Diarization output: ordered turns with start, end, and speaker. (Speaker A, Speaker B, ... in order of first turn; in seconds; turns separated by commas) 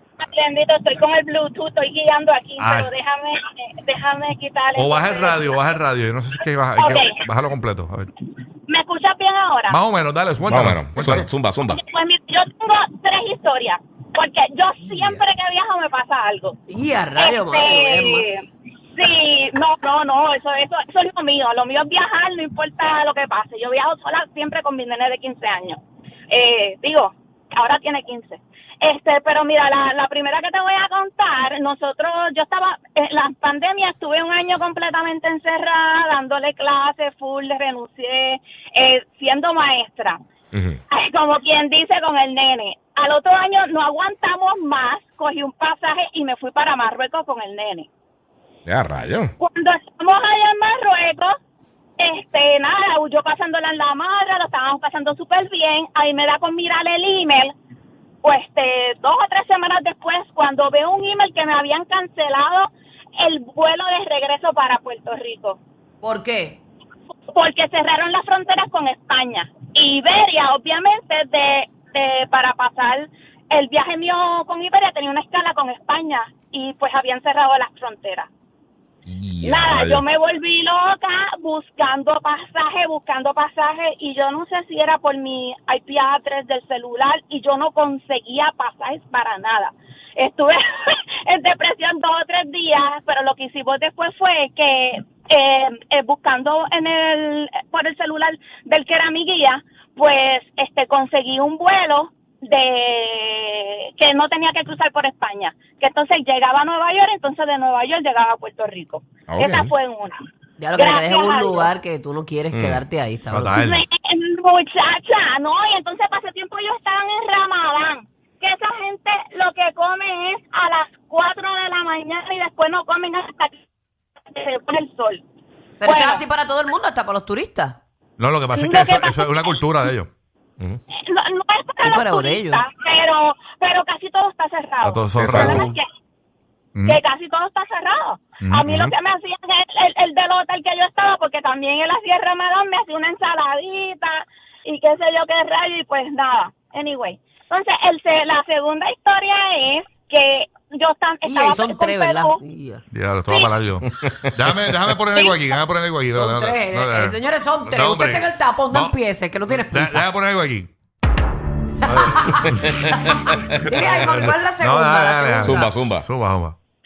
Speaker A: 0.2-5.5, Speaker B: 2.6-2.9, Speaker B: 4.8-8.1, Speaker A: 6.8-7.2, Speaker A: 8.7-9.8, Speaker B: 9.7-11.3, Speaker C: 10.5-11.8, Speaker A: 11.7-16.6, Speaker D: 14.8-15.2, Speaker D: 16.7-18.3, Speaker A: 17.2-18.4, Speaker A: 18.9-25.8, Speaker A: 26.3-40.2, Speaker C: 40.5-40.8, Speaker A: 40.9-47.9, Speaker C: 48.6-49.3, Speaker A: 49.4-51.4, Speaker A: 52.0-57.5, Speaker A: 58.2-65.6, Speaker D: 66.0-66.6, Speaker A: 67.3-78.3, Speaker C: 79.0-80.0, Speaker A: 79.4-110.2, Speaker C: 109.3-109.7, Speaker D: 110.6-113.5, Speaker A: 110.8-111.7, Speaker C: 112.5-112.8, Speaker B: 113.3-113.8, Speaker A: 113.4-123.6, Speaker A: 124.3-125.2, Speaker D: 125.8-127.8, Speaker A: 125.8-126.2, Speaker B: 128.2-130.1, Speaker A: 128.5-129.5, Speaker A: 130.9-135.8, Speaker D: 131.8-132.6, Speaker B: 134.8-135.7, Speaker C: 135.1-135.7, Speaker B: 136.8-137.0, Speaker A: 136.8-152.3, Speaker B: 138.4-138.9, Speaker D: 151.2-152.8, Speaker B: 152.9-160.7, Speaker A: 153.3-153.6, Speaker C: 153.9-154.2, Speaker A: 155.1-155.4, Speaker D: 156.1-160.0, Speaker B: 161.8-163.1, Speaker D: 161.9-165.8, Speaker B: 163.6-166.6, Speaker C: 165.4-166.1